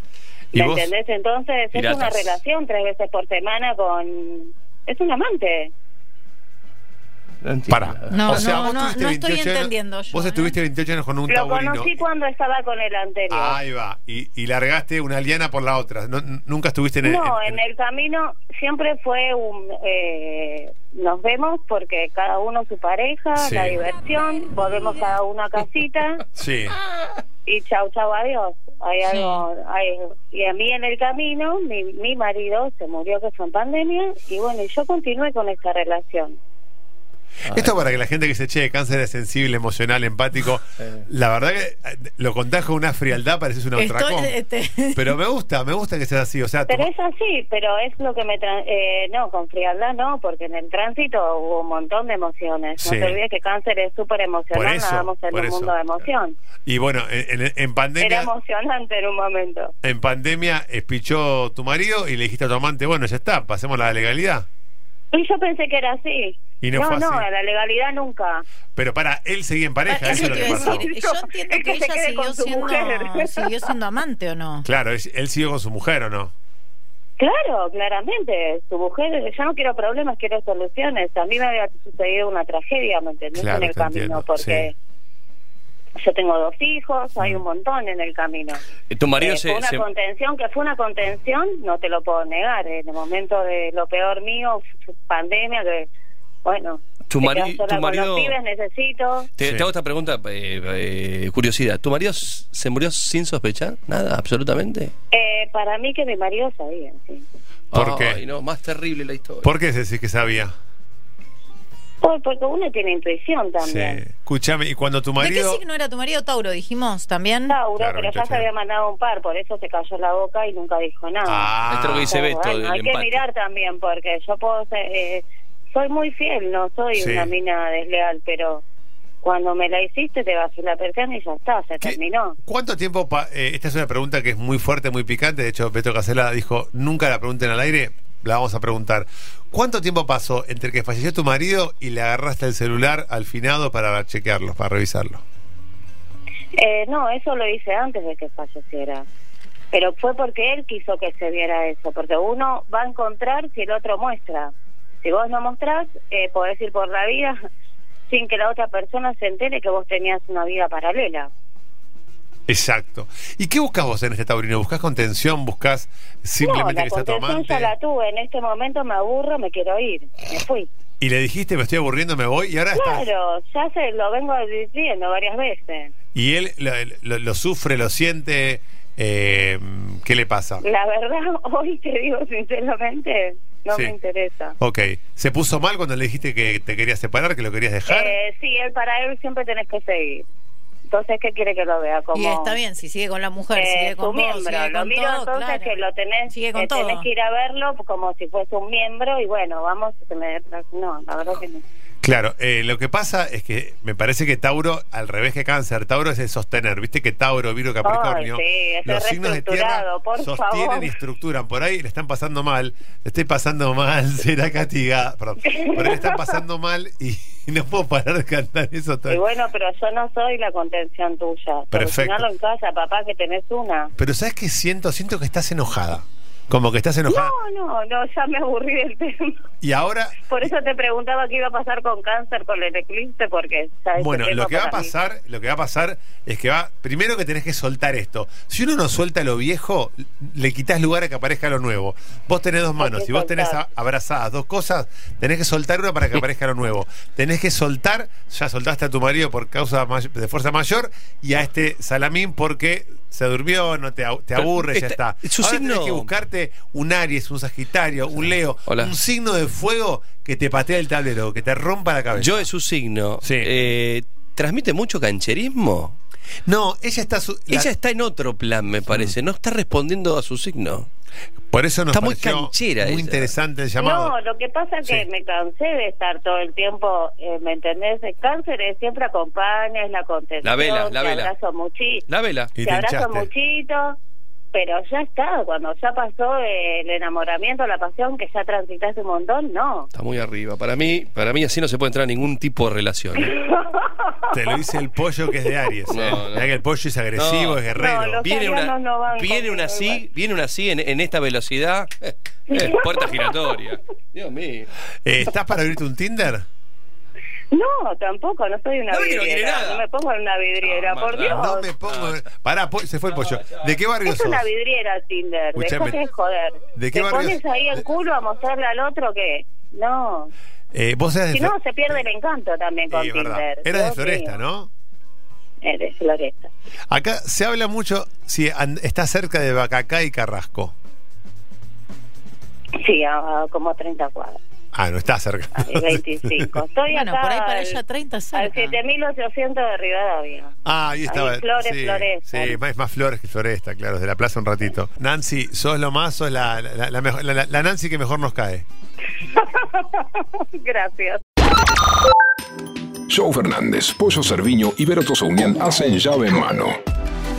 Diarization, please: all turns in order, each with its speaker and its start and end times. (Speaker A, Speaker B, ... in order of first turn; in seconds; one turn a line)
Speaker A: 0.5-5.7
Speaker B: 0.5-0.9
Speaker C: 1.7-2.3
Speaker C: 7.4-8.6
Speaker B: 7.7-12.1
Speaker D: 8.1-10.6
Speaker A: 11.3-13.6
Speaker B: 13.3-17.6
Speaker A: 17.0-26.2
Speaker B: 23.3-23.8
Speaker B: 26.4-26.8
Speaker A: 27.4-36.4
Speaker D: 29.1-29.4
Speaker B: 37.5-44.4
Speaker D: 43.8-45.0
Speaker B: 45.0-46.9
Speaker A: 46.7-56.4
Speaker B: 52.8-53.2
Speaker B: 54.5-55.7
Speaker B: 56.6-58.3
Speaker A: 58.0-59.7
Speaker B: 59.8-64.5
Speaker A: 65.1-68.4
Speaker B: 66.6-67.3
Speaker B: 68.7-70.9
Speaker D: 69.9-74.6
Speaker A: 70.0-73.7
Speaker B: 74.6-76.3
Speaker A: 77.2-84.7
Speaker B: 83.3-84.7
Speaker A: 86.0-88.6
Speaker C: 88.9-89.8
Speaker A: 89.2-95.9
Speaker A: 96.4-99.3
Speaker C: 97.1-98.3
Speaker C: 99.4-104.9
Speaker B: 99.4-99.7
Speaker A: 105.1-107.2
Speaker C: 107.7-109.5
Speaker B: 107.7-108.2
Speaker B: 109.4-110.5
Speaker A: 112.0-114.0
Speaker B: 113.6-115.6
Speaker D: 115.2-117.6
Speaker A: 117.5-128.6
Speaker B: 117.8-118.5
Speaker B: 121.2-122.1
Speaker C: 121.7-123.2
Speaker B: 126.9-127.3
Speaker A: 129.2-132.4
Speaker B: 131.8-145.2
Speaker A: 146.5-149.0
Speaker A: 149.7-154.5
Speaker A: 155.0-157.4
Speaker A: 158.1-161.3
Speaker B: 162.5-167.7
Speaker A: 166.4-170.7
Speaker B: 171.0-173.1
Speaker A: 172.7-175.9
Speaker B: 176.1-180.6
Speaker A: 180.6-184.6
Speaker B: 184.6-188.2
Speaker A: 187.9-190.2
Speaker A: 190.9-192.6
Speaker D: 192.1-195.7
Speaker A: 193.5-201.6
Speaker D: 196.3-197.1
Speaker B: 202.0-219.2
Speaker A: 207.8-210.9
Speaker A: 215.5-216.3
Speaker A: 219.1-223.9
Speaker B: 221.7-222.2
Speaker B: 224.0-227.3
Speaker A: 227.1-229.4
Speaker B: 229.6-230.2
Speaker A: 230.3-234.9
Speaker B: 233.9-262.5
Speaker A: 242.8-243.6
Speaker C: 254.3-256.1
Speaker C: 262.2-265.9
Speaker B: 263.2-263.5
Speaker B: 266.4-267.7
Speaker C: 267.5-270.9
Speaker B: 268.9-269.1
Speaker B: 271.5-274.1
Speaker C: 271.9-273.3
Speaker A: 273.8-282.1
Speaker C: 280.4-281.3
Speaker C: 282.1-282.6
Speaker B: 282.5-283.3
Speaker A: 282.6-284.0
Speaker A: 284.5-289.9
Speaker C: 289.9-293.3
Speaker A: 293.3-294.4
Speaker B: 294.3-298.3
Speaker C: 295.9-296.5
Speaker C: 297.1-297.7
Speaker A: 297.7-300.0
Speaker C: 298.2-304.7
Speaker A: 302.5-303.3
Speaker B: 305.0-306.4
Speaker A: 307.5-311.7
Speaker C: 308.9-309.8
Speaker C: 310.6-312.2
Speaker B: 311.3-314.4
Speaker C: 313.1-313.6
Speaker A: 314.1-320.3
Speaker B: 315.5-316.0
Speaker B: 316.7-317.4
Speaker B: 320.7-321.6
Speaker A: 321.3-324.4
Speaker B: 322.9-324.7
Speaker A: 325.6-326.5
Speaker B: 326.9-330.7
Speaker A: 332.8-334.4
Speaker B: 334.7-336.5
Speaker A: 335.5-337.8
Speaker D: 336.9-338.8
Speaker A: 338.3-340.5
Speaker B: 340.6-348.6
Speaker A: 341.1-342.6
Speaker A: 349.2-351.2
Speaker E: 353.1-356.8